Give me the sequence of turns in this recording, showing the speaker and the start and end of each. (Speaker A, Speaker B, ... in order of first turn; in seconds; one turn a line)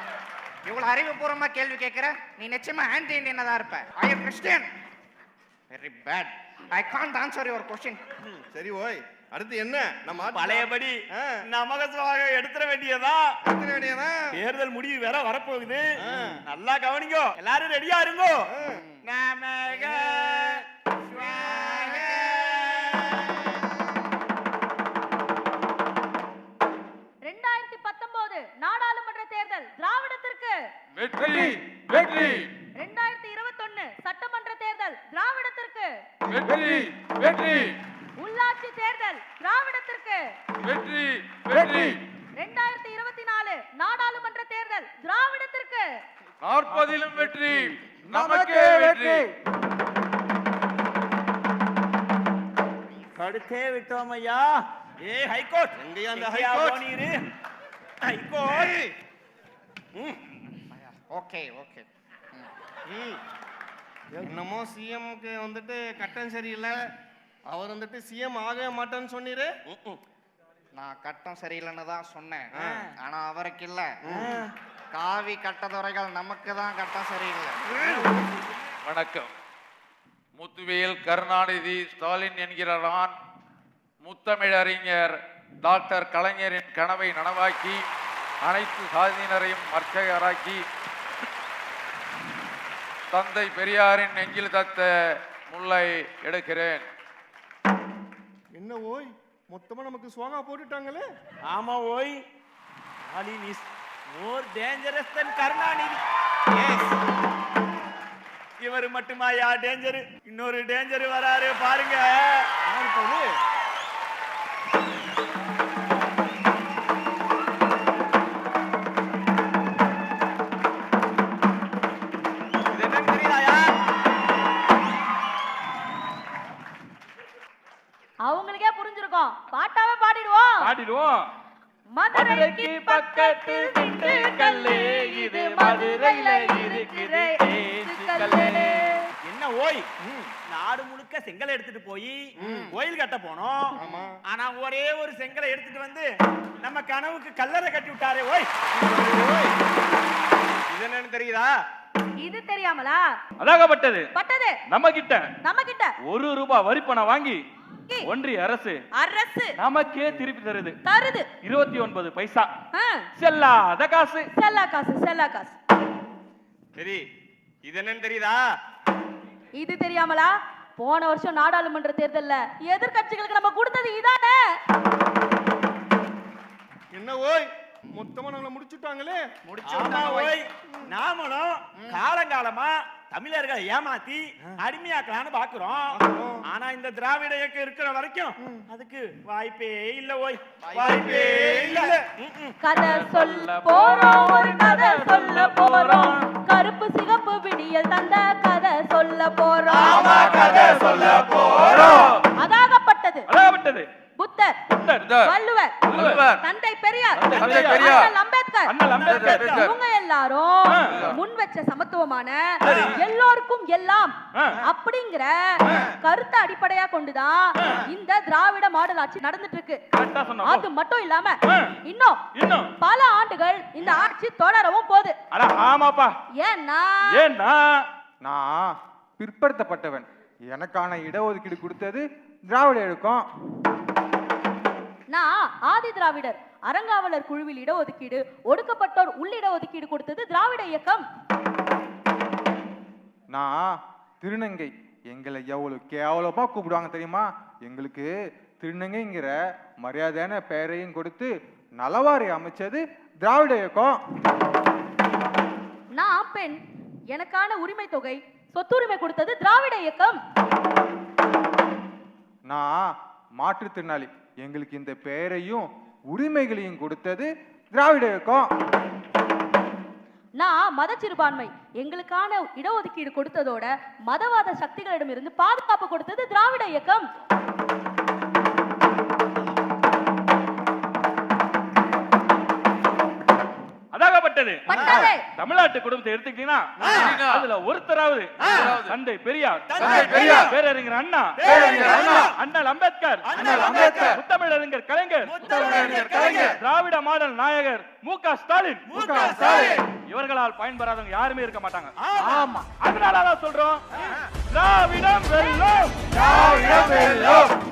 Speaker A: 0.6-4.7
Speaker A: 5.7-8.0
Speaker B: 8.4-11.4
Speaker C: 10.3-13.4
Speaker B: 13.4-14.4
Speaker C: 14.3-18.5
Speaker B: 16.0-16.4
Speaker B: 18.5-18.8
Speaker C: 19.0-23.3
Speaker D: 27.2-30.7
Speaker E: 30.9-32.5
Speaker F: 31.1-32.5
Speaker D: 32.8-36.0
Speaker F: 36.3-36.9
Speaker E: 36.3-37.7
Speaker D: 38.2-40.3
Speaker E: 40.6-42.0
Speaker F: 41.5-42.0
Speaker D: 42.4-46.0
Speaker E: 46.4-49.2
Speaker G: 46.9-47.5
Speaker F: 48.1-49.3
Speaker C: 53.1-54.5
Speaker C: 55.0-57.1
Speaker B: 55.8-56.9
Speaker C: 58.0-58.8
Speaker B: 58.5-58.8
Speaker A: 61.1-62.5
Speaker B: 64.2-66.7
Speaker B: 67.5-69.5
Speaker C: 69.7-70.0
Speaker A: 70.7-74.0
Speaker B: 72.5-72.9
Speaker B: 74.0-74.4
Speaker C: 74.1-74.5
Speaker A: 74.9-77.7
Speaker B: 77.7-78.1
Speaker C: 77.9-78.2
Speaker E: 78.8-79.3
Speaker E: 80.4-83.1
Speaker E: 84.0-87.8
Speaker E: 88.4-90.6
Speaker E: 93.1-94.9
Speaker E: 95.5-96.8
Speaker B: 98.5-101.0
Speaker C: 101.5-102.2
Speaker C: 103.1-106.0
Speaker C: 108.6-112.5
Speaker B: 112.7-113.2
Speaker H: 122.7-123.5
Speaker C: 123.1-123.6
Speaker D: 128.2-130.6
Speaker G: 130.6-131.3
Speaker D: 132.0-139.1
Speaker G: 132.1-139.0
Speaker C: 139.2-139.8
Speaker B: 140.0-140.3
Speaker C: 140.5-146.1
Speaker B: 142.4-142.8
Speaker B: 143.8-144.2
Speaker C: 146.6-148.5
Speaker B: 148.7-149.5
Speaker H: 150.7-151.5
Speaker D: 152.2-153.1
Speaker G: 153.4-154.1
Speaker D: 154.1-154.6
Speaker G: 154.7-155.3
Speaker D: 155.4-155.9
Speaker G: 156.0-157.4
Speaker G: 158.0-158.8
Speaker D: 158.9-159.5
Speaker G: 159.6-160.8
Speaker D: 160.8-161.3
Speaker G: 161.4-162.5
Speaker D: 162.7-163.1
Speaker G: 163.2-164.3
Speaker D: 164.3-165.5
Speaker H: 166.8-167.1
Speaker H: 167.6-168.4
Speaker D: 169.6-174.4
Speaker B: 176.9-179.2
Speaker A: 179.4-180.3
Speaker C: 179.7-192.6
Speaker B: 185.9-186.4
Speaker B: 190.8-191.9
Speaker D: 192.6-200.5
Speaker G: 192.7-196.3
Speaker C: 199.7-202.1
Speaker G: 200.0-201.3
Speaker D: 202.3-203.3
Speaker G: 203.3-203.9
Speaker D: 204.2-204.6
Speaker G: 204.7-205.1
Speaker E: 205.0-205.3
Speaker D: 205.2-205.8
Speaker G: 205.8-206.2
Speaker E: 205.9-206.4
Speaker D: 206.4-219.8
Speaker G: 207.2-208.0
Speaker E: 207.4-208.1
Speaker G: 208.7-209.4
Speaker C: 208.9-209.6
Speaker E: 209.0-209.7
Speaker G: 210.7-211.0
Speaker E: 210.9-211.2
Speaker C: 212.6-212.9
Speaker G: 212.6-212.9
Speaker G: 214.3-214.6
Speaker G: 219.9-220.7
Speaker D: 220.4-222.2
Speaker G: 221.4-221.7
Speaker G: 222.3-222.7
Speaker D: 222.8-225.2
Speaker G: 225.3-226.1
Speaker D: 226.4-227.1
Speaker G: 227.1-227.8
Speaker F: 228.2-233.2
Speaker D: 235.1-241.0
Speaker F: 243.3-254.0
Speaker D: 255.9-256.6
Speaker D: 257.1-260.2
Speaker F: 262.5-268.5
Speaker D: 270.4-277.1
Speaker G: 283.9-291.4
Speaker D: 284.7-285.2
Speaker C: 286.8-287.2
Speaker E: 286.9-287.4
Speaker C: 288.4-288.7
Speaker E: 288.4-288.9
Speaker C: 289.6-290.6
Speaker E: 289.8-290.5
Speaker C: 291.4-292.4
Speaker E: 291.4-292.2
Speaker F: 291.7-292.1
Speaker G: 292.3-293.3
Speaker C: 293.2-294.2
Speaker F: 293.4-294.2
Speaker G: 294.1-299.3
Speaker C: 295.2-296.6
Speaker F: 295.4-296.5
Speaker C: 298.9-299.8
Speaker F: 298.9-299.8
Speaker G: 300.1-301.9
Speaker C: 302.0-302.4
Speaker F: 302.2-302.7
Speaker G: 302.8-303.8
Speaker G: 304.5-306.1
Speaker F: 306.1-307.5
Speaker C: 306.2-307.4